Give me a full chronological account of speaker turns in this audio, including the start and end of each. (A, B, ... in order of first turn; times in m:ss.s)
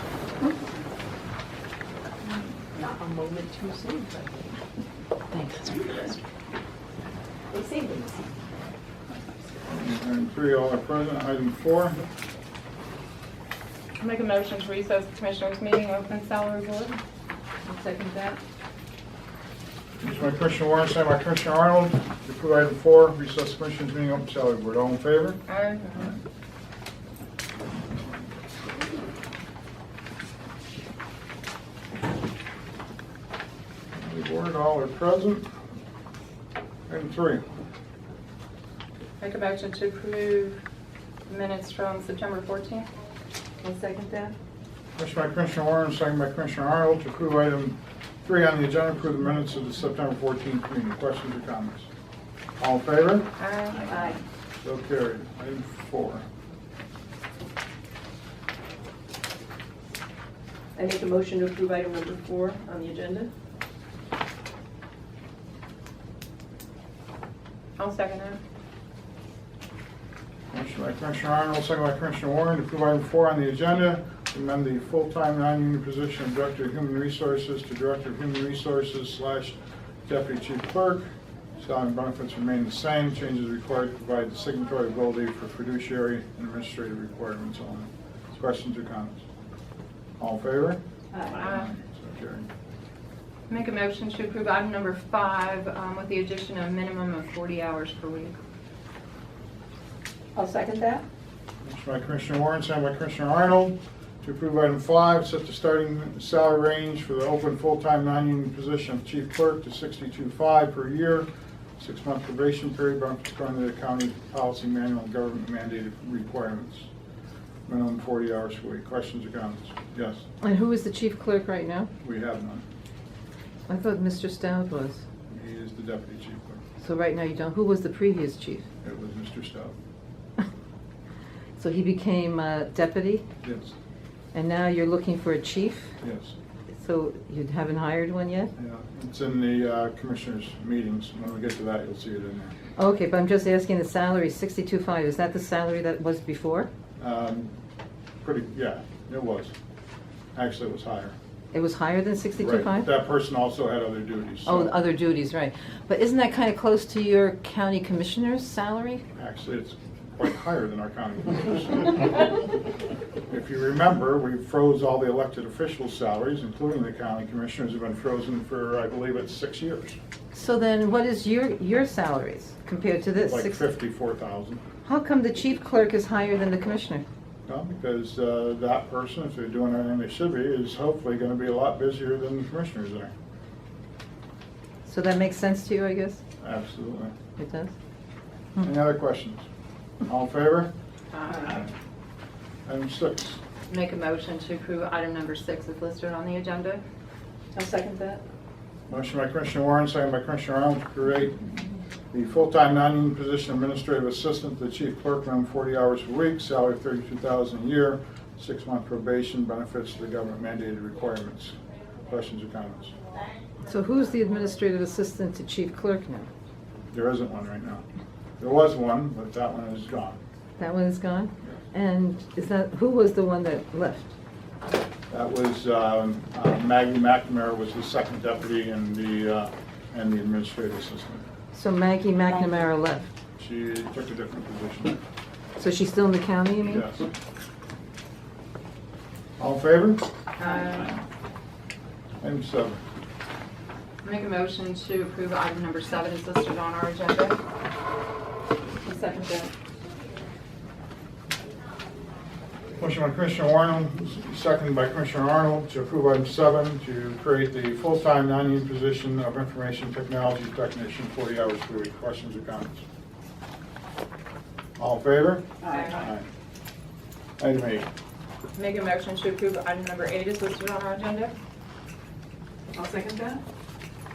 0:02.8-0:04.4 A
0:05.3-0:06.2 B
0:07.6-0:08.1 B
0:09.6-0:12.0 C
0:14.0-0:17.0 D
0:20.0-0:25.4 C
0:25.5-0:26.2 D
0:33.9-0:35.5 C
0:36.9-0:37.4 C
0:39.2-0:40.6 D
0:41.3-0:42.9 D
0:43.6-0:44.3 A
0:45.0-0:51.9 C
0:52.6-0:53.3 C
0:53.4-0:54.0 D
0:53.9-0:54.2 A
0:54.6-0:56.2 C
1:00.7-1:03.3 A
1:07.8-1:08.4 D
1:10.5-1:29.2 C
1:30.2-1:32.5 C
1:31.3-1:31.7 D
1:33.5-1:38.4 D
1:40.4-1:41.0 A
1:41.6-1:51.3 C
1:51.8-1:56.9 C
1:57.7-2:00.2 C
2:00.4-2:01.9 B
2:02.0-2:02.6 C
2:03.7-2:05.0 B
2:05.3-2:06.6 C
2:06.8-2:08.7 B
2:08.8-2:09.7 C
2:11.6-2:13.2 B
2:13.4-2:13.7 C
2:14.3-2:15.9 B
2:16.0-2:16.3 C
2:16.8-2:18.5 B
2:18.6-2:22.5 C
2:22.8-2:26.7 B
2:27.0-2:27.5 C
2:28.2-2:29.5 C
2:30.3-2:31.2 C
2:31.5-2:32.9 B
2:32.3-2:34.8 C
2:34.4-2:39.0 B
2:39.2-2:42.3 C
2:43.3-2:50.0 C
2:50.3-2:53.6 B
2:53.2-2:54.6 C
2:54.8-2:57.0 B
2:57.5-3:03.1 C
3:04.8-3:06.2 B
3:06.4-3:07.1 C
3:07.4-3:07.7 B
3:08.6-3:09.4 C
3:10.0-3:10.7 C
3:11.1-3:11.6 D
3:11.3-3:11.6 A
3:12.7-3:13.4 C
3:13.7-3:16.8 D
3:17.6-3:18.2 A
3:18.9-3:21.4 C
3:22.1-3:33.0 C
3:33.6-3:36.3 B
3:36.9-3:37.8 C
3:38.4-3:40.2 C
3:40.6-3:44.1 B
3:45.1-3:51.2 C
3:51.5-3:53.1 B
3:53.4-3:55.0 C
3:55.6-3:56.9 B
3:56.6-3:57.0 C
3:59.4-4:00.1 C
4:00.4-4:01.0 D
4:02.2-4:02.8 C
4:04.0-4:07.4 D
4:08.8-4:09.5 D
4:12.8-4:22.8 C
4:24.8-4:26.3 C
4:25.6-4:26.0 A
4:25.7-4:26.1 D
4:27.4-4:27.9 C
4:28.6-4:31.3 D
4:32.8-4:33.4 A